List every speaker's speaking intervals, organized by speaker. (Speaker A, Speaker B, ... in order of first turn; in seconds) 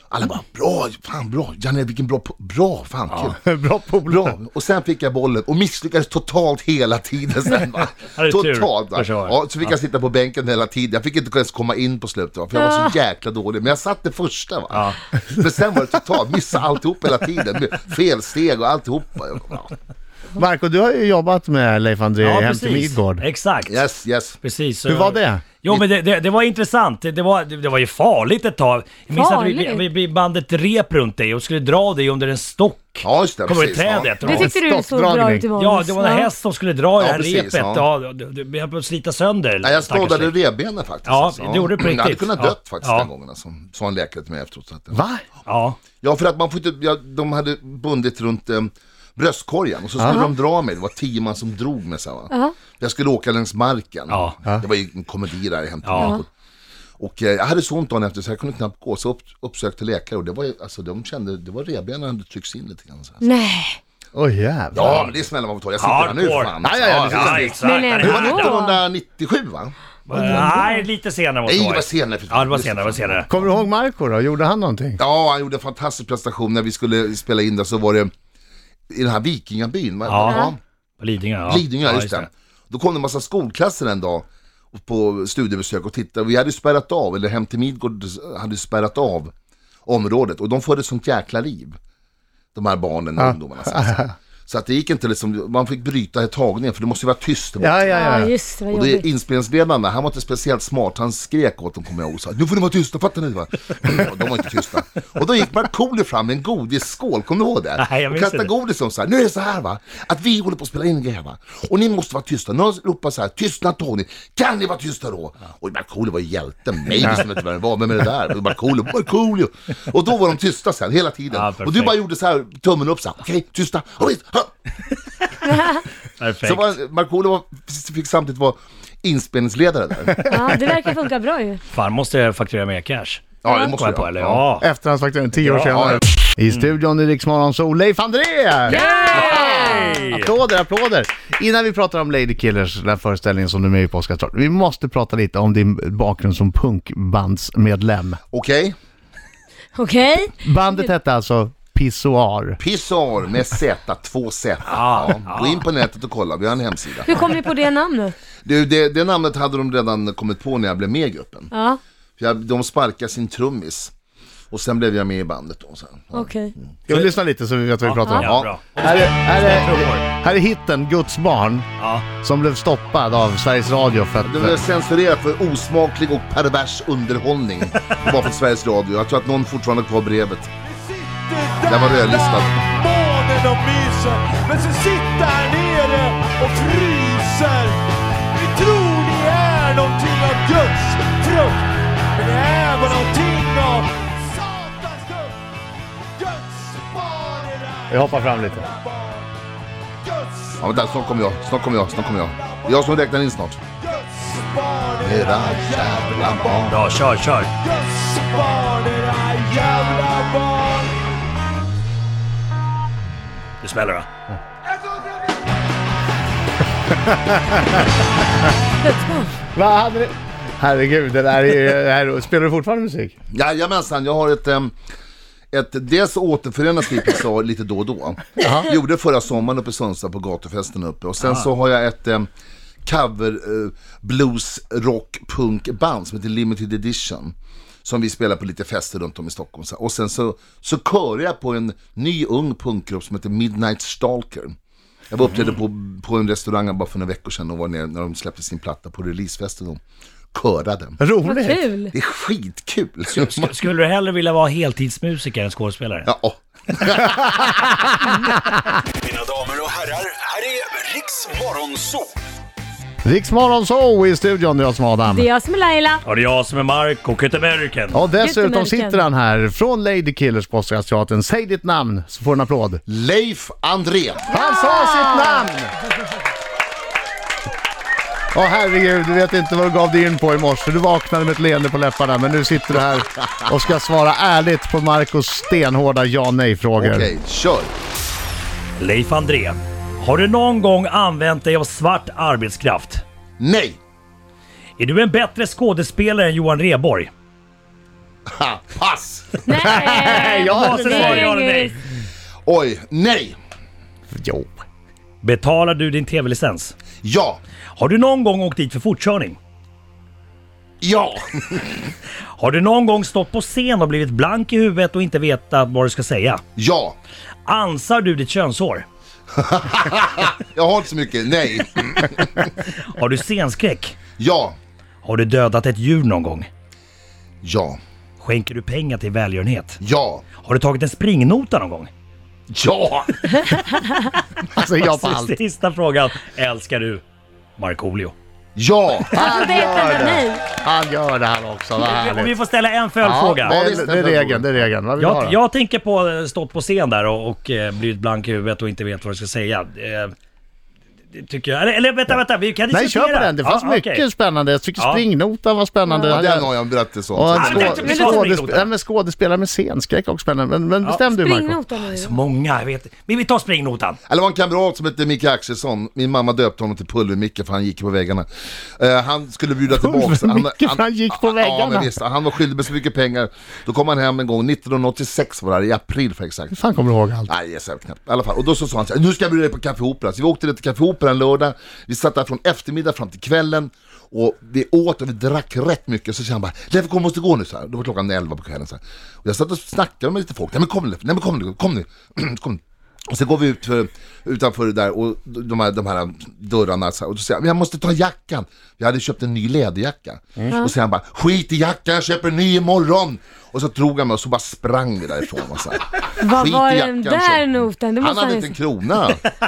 Speaker A: 0.1-3.4, 4.0-19.7, 23.6-24.4, 33.0-34.4, 37.0-37.8, 39.6-45.0, 46.0-56.3, 57.0-63.2, 64.7-69.7, 71.4-73.5, 75.0-78.1, 78.9-80.6, 81.4-89.3, 89.8-91.8, 92.5-98.1, 98.7-124.5, 126.4-130.2, 133.4-134.4, 148.3-148.8, 152.6-157.3, 158.4-161.5, 162.2-163.9, 164.5-166.4, 168.2-168.6, 174.2-180.5, 181.6-182.5, 200.6-203.6, 205.0-206.8, 223.3-224.7, 225.5-232.3, 232.8-244.5, 245.1-249.8, 250.3-251.0, 251.9-253.5, 256.1-257.8, 272.9-274.3, 286.8-287.7, 293.4-293.8, 298.4-299.8, 302.4-303.4, 307.0-307.4, 310.8-311.9, 316.6-316.9, 319.4-322.5, 324.2-324.6, 327.4-327.8, 329.8-330.2, 332.5-333.5, 338.6-339.1, 343.4-344.7, 356.1-358.2, 364.1-376.6, 377.2-409.2
Speaker B: 3.1-3.3, 8.2-9.7, 14.7-15.0, 22.2-23.8, 24.4-34.5, 35.5-40.3, 41.0-43.1, 45.5-45.8, 54.1-54.3, 55.8-56.1, 65.8-66.5, 67.1-68.5, 70.1-73.3, 80.0-82.3, 107.8-108.5, 121.3-121.9, 126.2-126.7, 131.7-134.7, 135.4-136.7, 138.7-140.3, 154.7-155.7, 166.9-167.1, 167.8-170.0, 171.8-172.0, 206.7-207.5, 213.6-214.1, 231.2-231.5, 245.2-245.5, 253.1-256.1, 266.0-268.1, 288.8-293.0, 294.8-297.1, 300.0-301.8, 305.2-306.8, 307.8-309.4, 312.4-316.4, 317.4-318.9, 322.9-323.9, 325.0-326.5, 328.2-329.8, 330.4-331.9, 334.8-337.0, 337.6-338.1, 341.8-343.6, 345.0-350.1, 351.1-354.1, 354.8-355.0, 357.4-358.7, 361.8-364.0
Speaker C: 3.4-4.4, 20.4-23.2, 24.9-25.4, 34.3-35.5, 44.9-45.2, 50.0-50.3, 64.1-65.1, 66.6-67.6, 73.3-75.0, 93.2-94.1, 97.6-98.3, 130.1-130.5, 134.6-148.2, 150.4-152.6, 166.9-174.6, 197.9-198.7, 217.0-217.6, 219.5-223.1, 251.0-251.6, 258.1-258.6, 263.0-265.3, 267.9-272.8, 274.3-275.7, 278.3-287.1, 299.6-301.3, 304.1-304.6, 334.5-335.3, 339.1-342.3, 343.0-345.4, 352.7-356.5, 357.1-361.6, 369.8-371.9, 376.5-377.3
Speaker D: 29.1-29.9, 34.2-36.3, 63.2-63.8, 67.6-68.8, 70.2-70.8, 80.2-80.5, 97.9-99.0, 130.3-131.6, 133.4-133.7, 138.7-140.0, 149.8-150.3, 157.1-158.1, 161.5-161.8, 166.1-166.5, 218.8-219.3, 251.2-251.9, 265.1-266.0, 268.2-269.0, 274.3-275.5, 299.4-301.7, 339.1-340.5, 355.9-356.2, 357.7-358.1, 361.1-362.2, 406.2-408.6
Speaker E: 180.8-187.8, 188.3-191.6, 192.2-195.3, 196.2-199.2, 200.1-200.5, 202.4-202.7, 203.8-206.6, 207.6-210.9
Speaker F: 259.1-261.9